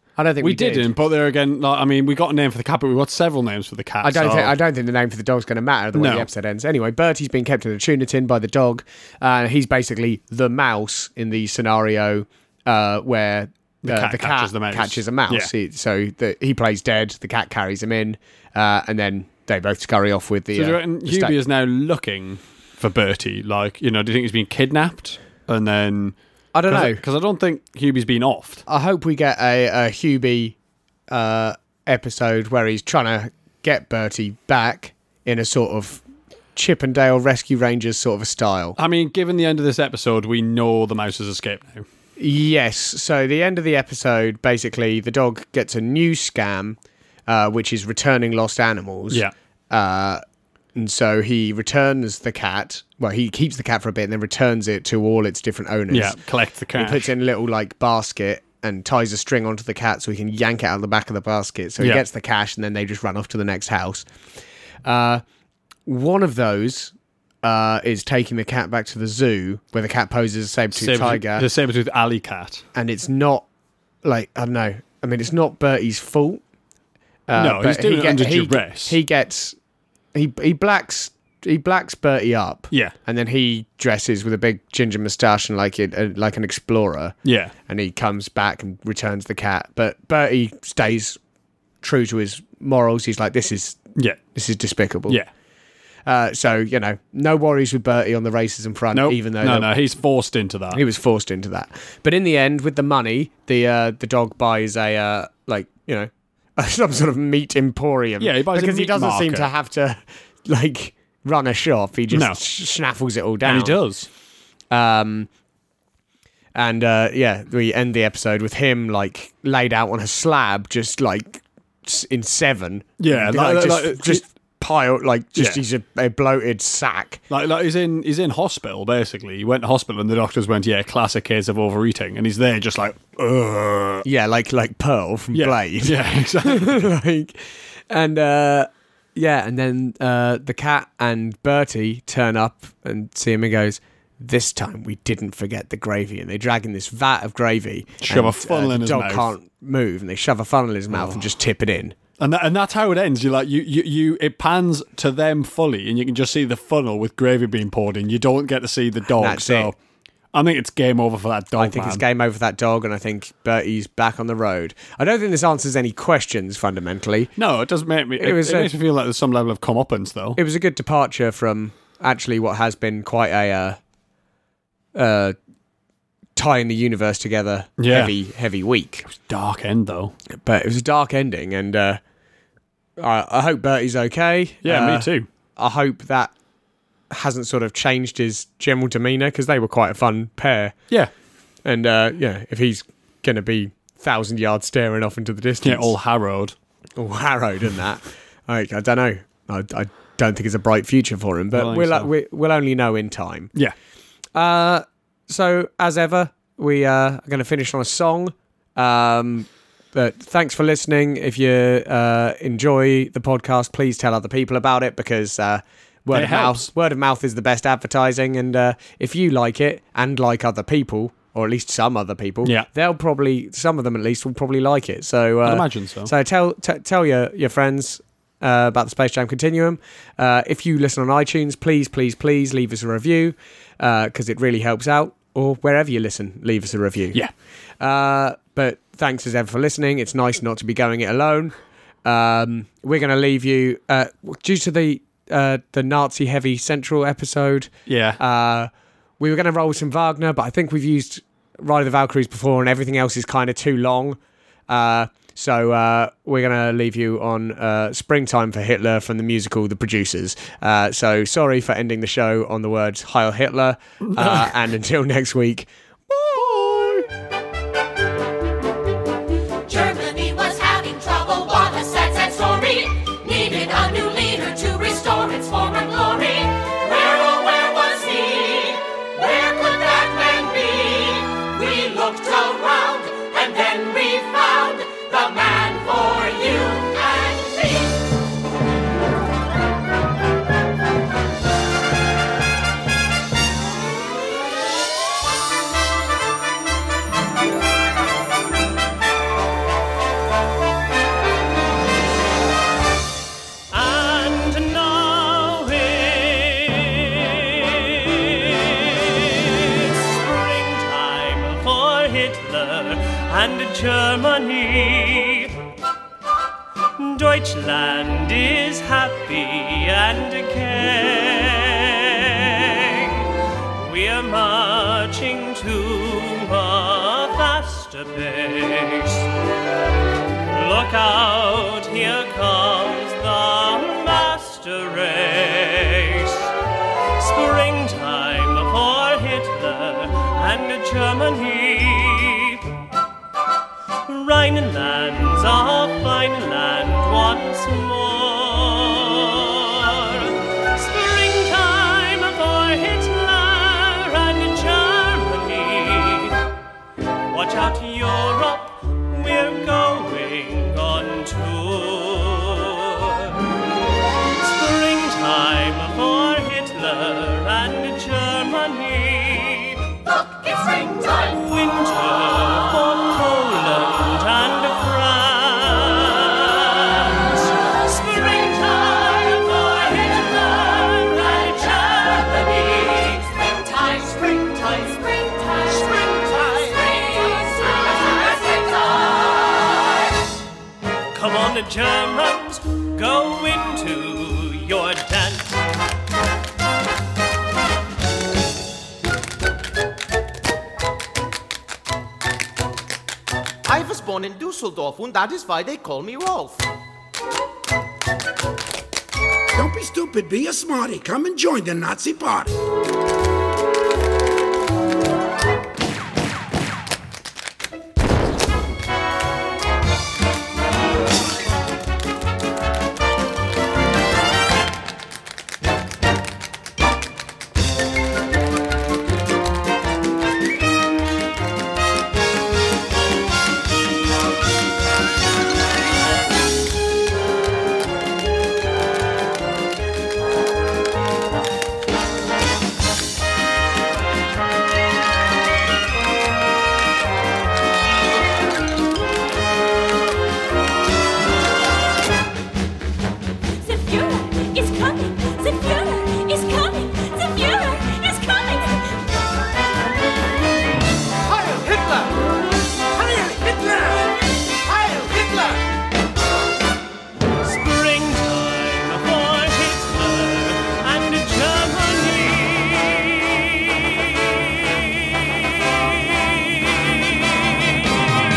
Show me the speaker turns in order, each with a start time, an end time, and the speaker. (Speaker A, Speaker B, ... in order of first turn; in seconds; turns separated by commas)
Speaker A: 0.2-0.9, Speaker B: 0.4-4.6, Speaker A: 4.0-21.4, Speaker B: 5.9-6.3, Speaker B: 13.8-15.5, Speaker B: 20.5-26.1, Speaker A: 26.5-27.0, Speaker B: 26.7-28.6, Speaker A: 28.7-30.5, Speaker A: 31.1-36.0, Speaker A: 36.5-38.8, Speaker B: 38.8-41.9, Speaker A: 42.2-50.2, Speaker A: 50.7-56.2, Speaker B: 55.9-57.1, Speaker A: 56.7-64.0, Speaker B: 61.8-62.0, Speaker A: 64.8-65.2, Speaker A: 65.8-71.5, Speaker B: 70.7-72.6, Speaker A: 72.7-73.5, Speaker A: 74.0-76.4, Speaker A: 77.3-79.5, Speaker B: 77.3-79.0, Speaker A: 80.1-87.2, Speaker B: 87.2-87.5, Speaker A: 87.7-91.2, Speaker A: 91.8-93.8, Speaker B: 94.0-94.2, Speaker A: 94.3-95.2, Speaker A: 96.0-99.7, Speaker B: 98.9-100.8, Speaker A: 100.7-113.8, Speaker B: 108.2-109.5, Speaker B: 112.1-112.4, Speaker B: 113.4-114.1, Speaker A: 114.7-115.3, Speaker A: 116.5-127.2, Speaker B: 123.0-124.2, Speaker B: 125.3-125.6, Speaker B: 127.3-134.1, Speaker A: 134.0-151.9, Speaker B: 135.3-136.9, Speaker B: 148.0-149.3, Speaker B: 150.9-151.2, Speaker B: 152.2-159.8, Speaker A: 159.1-159.7, Speaker B: 160.3-162.0, Speaker A: 161.6-167.3, Speaker B: 167.3-170.4, Speaker A: 168.2-168.7, Speaker A: 170.3-173.8, Speaker A: 174.9-175.3, Speaker A: 176.3-179.1, Speaker B: 177.8-178.1, Speaker B: 179.1-180.1, Speaker A: 180.4-182.0, Speaker A: 183.0-186.3, Speaker B: 184.6-185.3, Speaker A: 187.1-190.8, Speaker A: 191.6-195.9, Speaker B: 195.6-196.5, Speaker A: 197.0-203.5, Speaker B: 201.5-202.1, Speaker A: 204.3-237.2, Speaker B: 216.1-216.7, Speaker B: 225.4-226.1, Speaker A: 237.8-265.7, Speaker B: 247.9-248.2, Speaker B: 264.0-264.5, Speaker B: 266.1-267.0, Speaker C: 269.7-288.1, Speaker D: 303.7-315.5, Speaker D: 317.0-329.3, Speaker D: 330.5-336.5, Speaker D: 337.2-342.7, Speaker D: 344.1-356.4, Speaker D: 357.3-363.4, Speaker D: 364.4-369.9, Speaker C: 370.1-371.4, Speaker D: 371.3-383.3, Speaker C: 381.5-389.7, Speaker D: 391.1-395.5, Speaker E: 403.6-406.6, Speaker F: 409.5-412.5, Speaker C: 453.6-459.0, Speaker C: 463.0-463.5, Speaker D: 467.4-473.9